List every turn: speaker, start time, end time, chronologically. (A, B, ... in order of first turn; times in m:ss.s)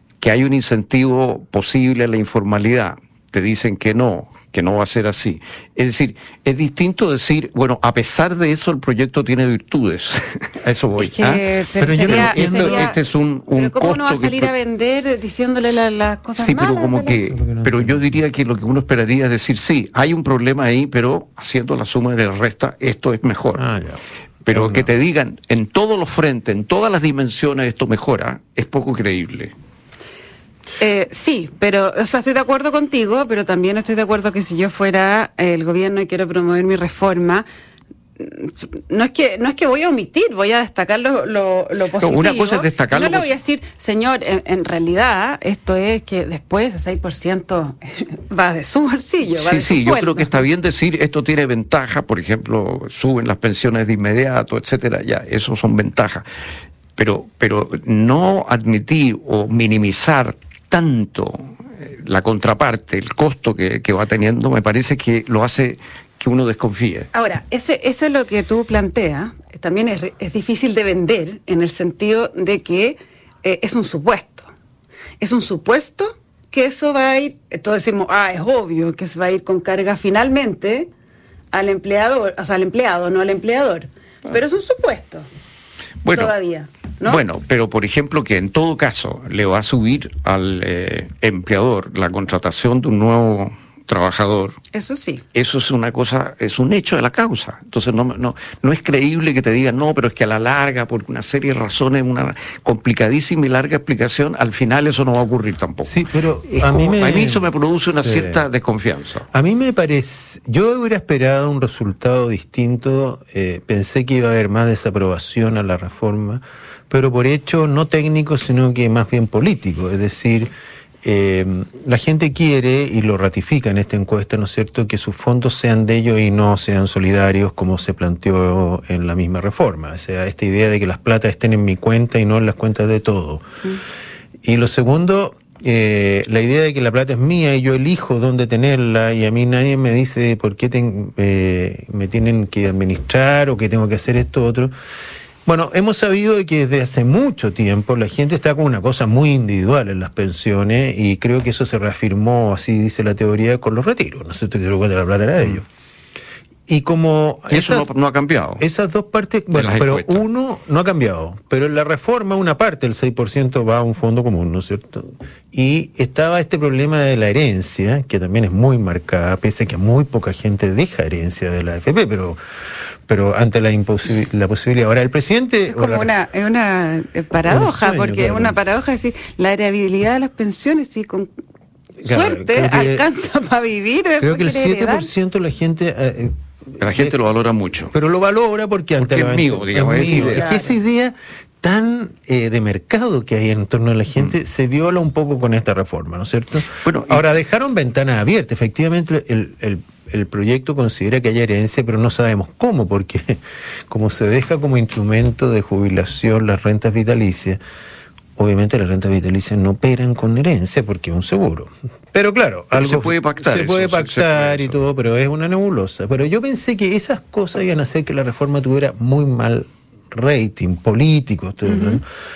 0:00.2-0:14.5 A
0:11.0-0:13.0 B
0:11.8-0:12.9 C
0:13.5-0:17.2 B
0:16.4-0:23.6 A
0:17.2-0:18.0 C
0:23.6-0:24.9 C
0:24.5-0:29.5 A
0:30.8-0:37.5 B
0:38.2-0:50.4 B
0:42.0-0:43.3 A
0:49.3-0:56.2 A
0:57.0-1:07.1 A
1:07.1-1:14.5 B
1:15.2-1:20.9 B
1:21.5-1:25.3 B
1:26.0-1:26.3 A
1:26.1-1:27.2 B
1:27.0-1:34.6 A
1:34.7-1:35.2 B
1:35.3-1:49.3 A
1:45.8-1:48.4 C
1:49.3-2:00.5 C
2:01.0-2:13.5 C
2:14.4-2:24.7 C
2:25.5-2:35.6 C
2:36.7-2:37.9 C
2:37.5-2:38.6 A
2:38.6-2:52.4 C
2:39.5-2:40.2 A
2:53.1-2:56.1 C
2:55.7-3:01.3 B
2:57.5-2:58.6 C
3:02.0-3:03.1 C
3:02.1-3:05.1 B
3:04.2-3:07.2 C
3:06.8-3:07.9 A
3:07.9-3:27.6 C
3:09.0-3:10.5 A
3:09.9-3:10.7 B
3:16.8-3:17.2 A
3:28.4-3:42.0 C
3:32.7-3:34.8 A
3:41.7-3:42.0 B